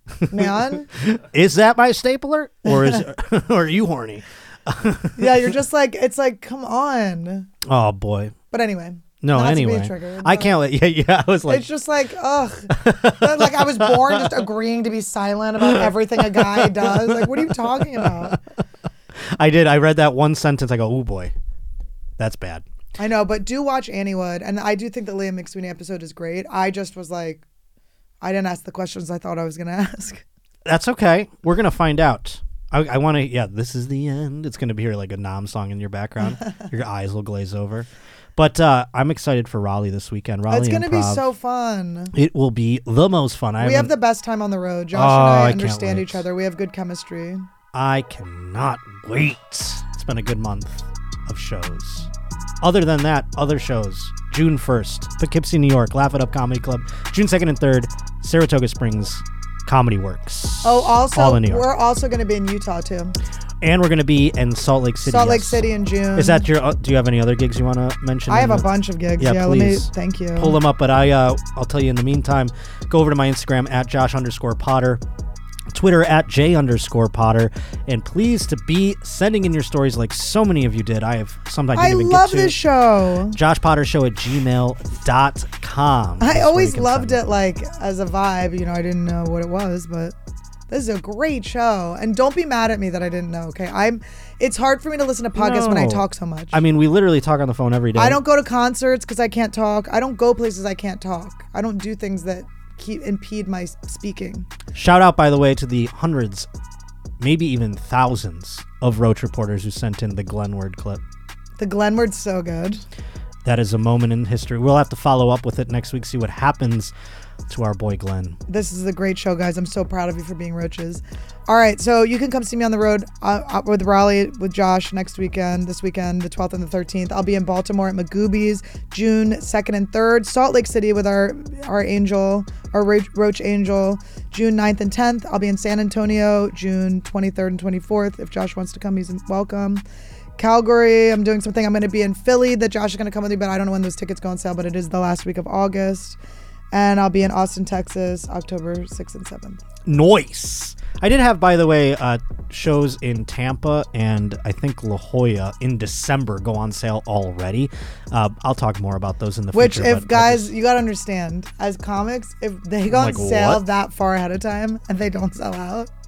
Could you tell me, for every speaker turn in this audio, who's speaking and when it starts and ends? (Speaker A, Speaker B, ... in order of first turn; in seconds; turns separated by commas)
Speaker A: 0.3-0.9, Speaker B: 0.3-5.5, Speaker A: 2.6-3.0, Speaker A: 5.2-7.5, Speaker B: 7.7-8.3, Speaker A: 8.5-10.5, Speaker B: 9.2-11.7, Speaker A: 11.5-18.4, Speaker B: 12.7-14.4, Speaker B: 15.6-18.4, Speaker B: 19.4-21.3, Speaker B: 22.2-22.6, Speaker A: 23.0-27.4, Speaker A: 28.2-30.2, Speaker B: 30.6-41.2, Speaker A: 40.5-42.1, Speaker B: 42.1-43.9, Speaker A: 43.6-47.5, Speaker B: 44.9-46.2, Speaker B: 47.7-52.1, Speaker B: 52.6-61.7, Speaker A: 60.6-63.2, Speaker B: 63.6-65.6, Speaker A: 65.0-66.5, Speaker B: 66.1-75.0, Speaker A: 68.3-70.6, Speaker B: 75.7-82.6, Speaker A: 81.7-83.4, Speaker B: 83.3-87.2, Speaker A: 86.2-90.1, Speaker A: 90.7-96.6, Speaker B: 95.3-98.2, Speaker A: 98.0-104.5, Speaker B: 104.7-106.5, Speaker B: 107.2-111.0, Speaker A: 111.6-112.8, Speaker B: 113.4-116.9, Speaker B: 117.5-118.4, Speaker A: 118.5-139.8, Speaker A: 140.4-146.2, Speaker A: 146.7-149.6, Speaker B: 149.8-160.5, Speaker A: 159.5-165.9, Speaker B: 162.9-163.6